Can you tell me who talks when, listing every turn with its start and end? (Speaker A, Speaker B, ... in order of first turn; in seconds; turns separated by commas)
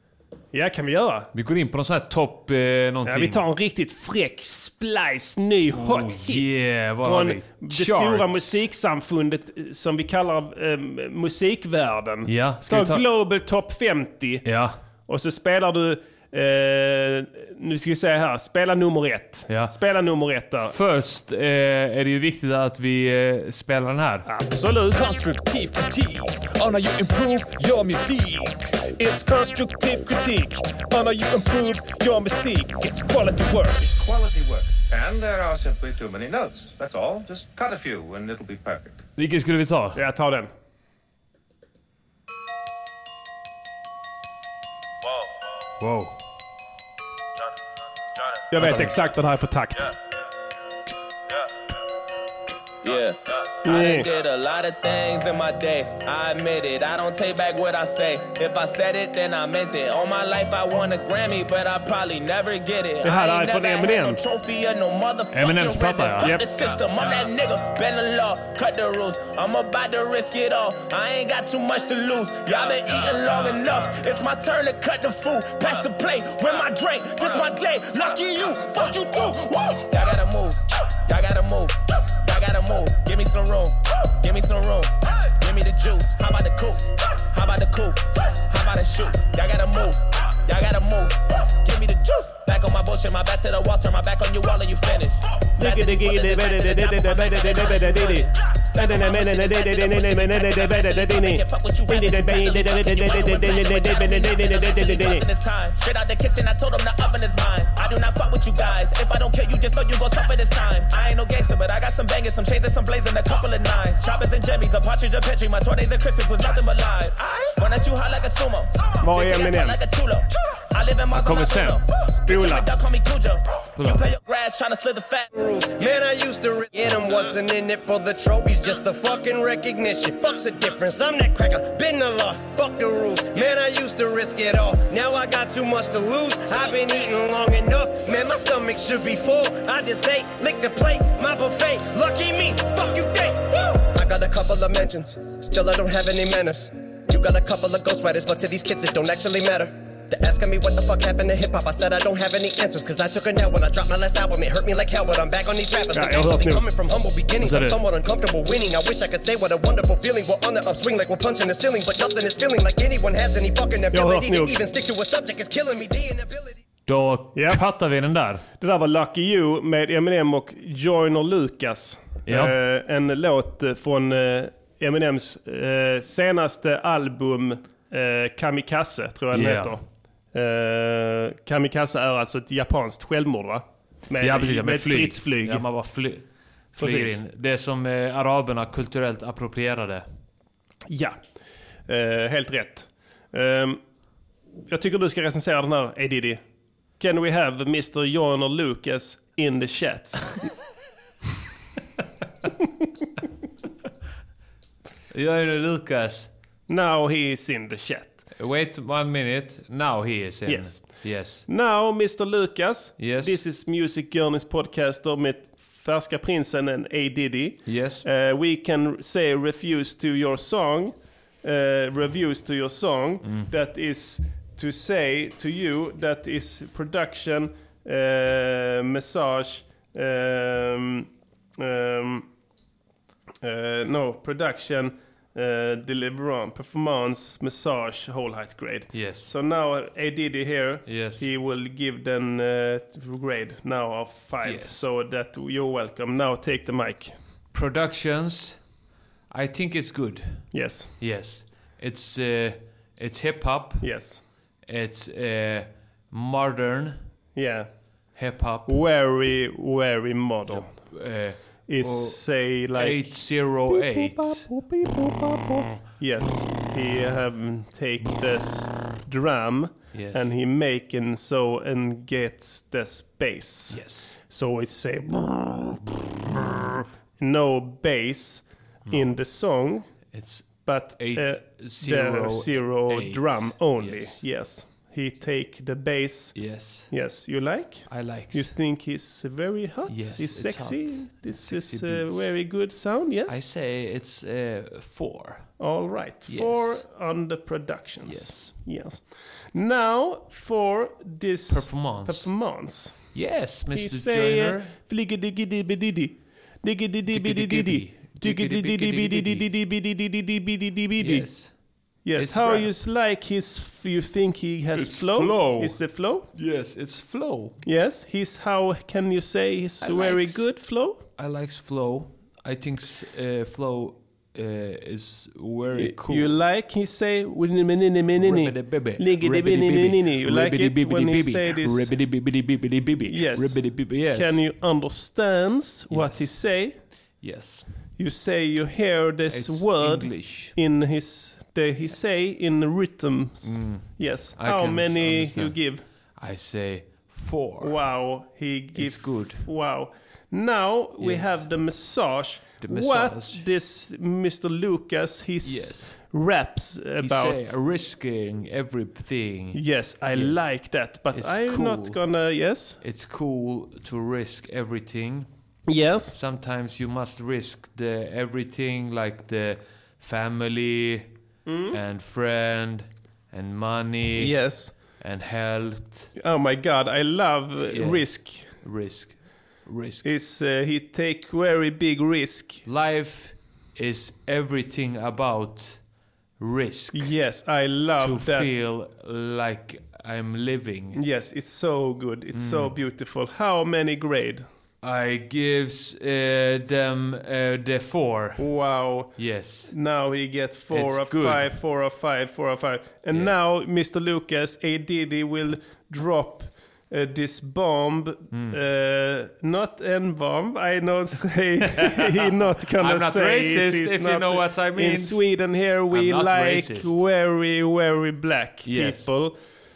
Speaker A: 0.5-1.3, Speaker B: 1.3-3.4, Speaker A: 3.1-6.5, Speaker B: 5.7-8.6, Speaker A: 7.0-14.4, Speaker B: 12.3-13.0, Speaker B: 14.5-14.8, Speaker A: 15.1-20.8, Speaker B: 19.5-19.7, Speaker B: 20.7-24.3, Speaker A: 24.3-25.0, Speaker C: 24.9-28.7, Speaker A: 29.0-29.9, Speaker C: 30.8-31.1, Speaker A: 31.9-33.8, Speaker D: 33.9-39.0, Speaker B: 39.2-40.0, Speaker A: 40.0-40.5, Speaker B: 45.8-46.2, Speaker A: 48.5-49.9, Speaker B: 48.6-49.0, Speaker E: 52.8-125.3, Speaker A: 53.6-54.1, Speaker A: 63.0-64.2, Speaker B: 65.3-66.4, Speaker A: 66.2-66.5, Speaker A: 95.6-105.3, Speaker A: 119.0-119.8, Speaker B: 121.2-121.8, Speaker A: 122.2-122.7, Speaker B: 123.8-124.0, Speaker F: 125.3-166.6, Speaker A: 155.9-156.7, Speaker B: 157.4-157.8, Speaker A: 163.9-164.6, Speaker B: 166.9-168.4, Speaker A: 167.3-167.6, Speaker A: 168.6-179.8, Speaker B: 172.3-172.6, Speaker B: 179.3-179.8, Speaker A: 180.3-185.6, Speaker B: 184.2-190.1, Speaker A: 186.8-187.2, Speaker A: 190.9-191.2, Speaker A: 191.9-193.8, Speaker A: 194.7-196.4, Speaker A: 197.0-200.4, Speaker B: 205.1-206.3, Speaker A: 206.7-208.2, Speaker B: 208.4-211.5, Speaker A: 210.5-232.3, Speaker B: 213.0-213.4, Speaker B: 217.7-218.1, Speaker A: 233.4-247.1, Speaker B: 238.9-239.3, Speaker B: 240.9-241.3, Speaker B: 244.4-244.8, Speaker B: 247.5-248.6, Speaker B: 249.3-254.1, Speaker A: 250.5-250.9, Speaker A: 253.8-254.2, Speaker B: 254.7-257.0, Speaker A: 257.4-257.7, Speaker B: 258.1-258.8, Speaker A: 258.7-260.7, Speaker B: 260.5-264.5, Speaker A: 261.7-263.1, Speaker A: 263.7-279.9, Speaker B: 269.9-270.3, Speaker B: 273.7-274.2, Speaker B: 280.1-284.2, Speaker A: 280.6-293.4, Speaker B: 286.4-286.9, Speaker B: 287.9-288.5, Speaker B: 289.9-292.3, Speaker B: 293.3-295.5, Speaker A: 295.6-303.1, Speaker B: 296.3-296.8, Speaker B: 298.1-298.6, Speaker B: 301.5-302.3, Speaker B: 303.1-304.7, Speaker A: 303.7-311.3, Speaker B: 307.1-309.5, Speaker B: 311.0-311.6, Speaker A: 312.0-316.3, Speaker B: 312.1-312.7, Speaker B: 314.8-315.8, Speaker B: 316.4-317.6, Speaker A: 317.6-321.0, Speaker B: 319.8-320.4, Speaker B: 321.2-326.4, Speaker A: 325.7-331.9, Speaker B: 328.2-334.4, Speaker A: 333.1-336.8, Speaker B: 335.9-336.3, Speaker B: 337.2-337.7, Speaker A: 338.0-345.8, Speaker B: 339.3-340.6, Speaker B: 343.4-345.6, Speaker B: 346.2-347.8, Speaker A: 347.6-357.5, Speaker B: 348.8-349.4, Speaker B: 351.0-351.5, Speaker B: 352.6-353.4, Speaker B: 355.4-356.0, Speaker B: 357.0-362.0, Speaker A: 359.5-362.8, Speaker B: 362.8-365.3, Speaker A: 365.7-366.1, Speaker B: 366.1-371.1, Speaker A: 371.5-371.8, Speaker B: 371.7-376.1, Speaker A: 374.2-374.7, Speaker A: 376.2-378.5, Speaker B: 377.7-380.1, Speaker A: 380.0-382.6, Speaker B: 382.7-385.8, Speaker B: 386.4-387.1, Speaker A: 386.9-388.5, Speaker B: 388.0-391.0, Speaker A: 390.9-394.5, Speaker B: 392.3-392.7, Speaker B: 394.8-398.5, Speaker A: 398.4-419.4, Speaker B: 399.2-399.7, Speaker B: 400.7-401.6, Speaker B: 408.3-408.6, Speaker B: 412.8-415.2, Speaker B: 415.9-417.0, Speaker B: 418.6-419.1